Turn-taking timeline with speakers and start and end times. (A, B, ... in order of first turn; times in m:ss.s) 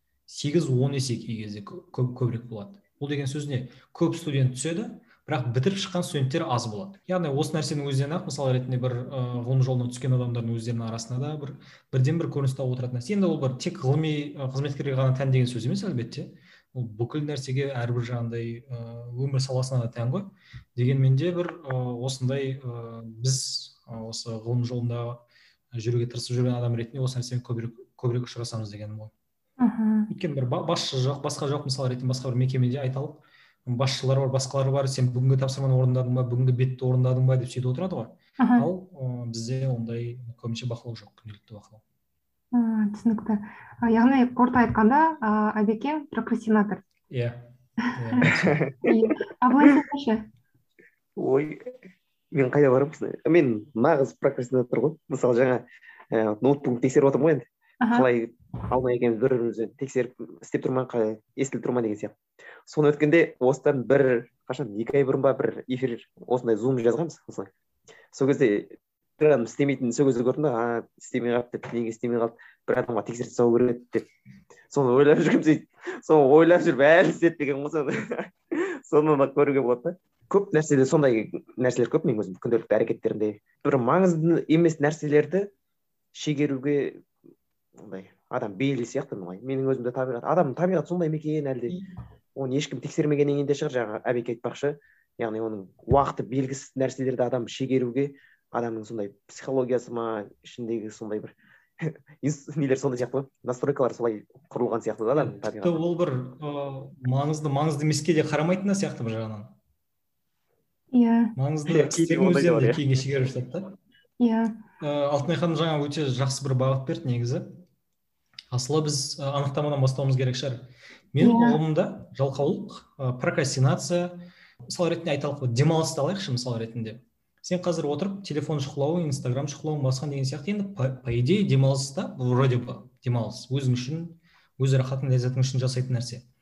0:00.3-0:25.2 A
0:25.7-0:29.1 A
0:29.6-0:30.1 B
0:30.1-0:41.8 A
0:38.4-0:38.7 B
0:42.5-0:46.8 B
0:47.1-0:48.6 A
0:47.8-0:48.2 B
0:48.2-0:48.9 C
0:48.8-0:50.2 B
0:51.2-0:51.7 C
0:52.3-1:02.2 C
0:57.8-0:58.1 B
1:02.7-1:07.5 C
1:08.1-1:14.1 C
1:14.7-1:25.5 C
1:26.1-1:27.0 C
1:27.8-1:31.8 C
1:32.4-1:45.8 C
1:45.1-1:49.5 A
1:50.9-1:51.3 B
1:51.4-1:53.7 A
1:51.7-1:52.8 C
1:54.2-1:54.6 B
1:54.8-1:57.5 A
1:58.5-2:16.2 A
2:01.2-2:01.6 B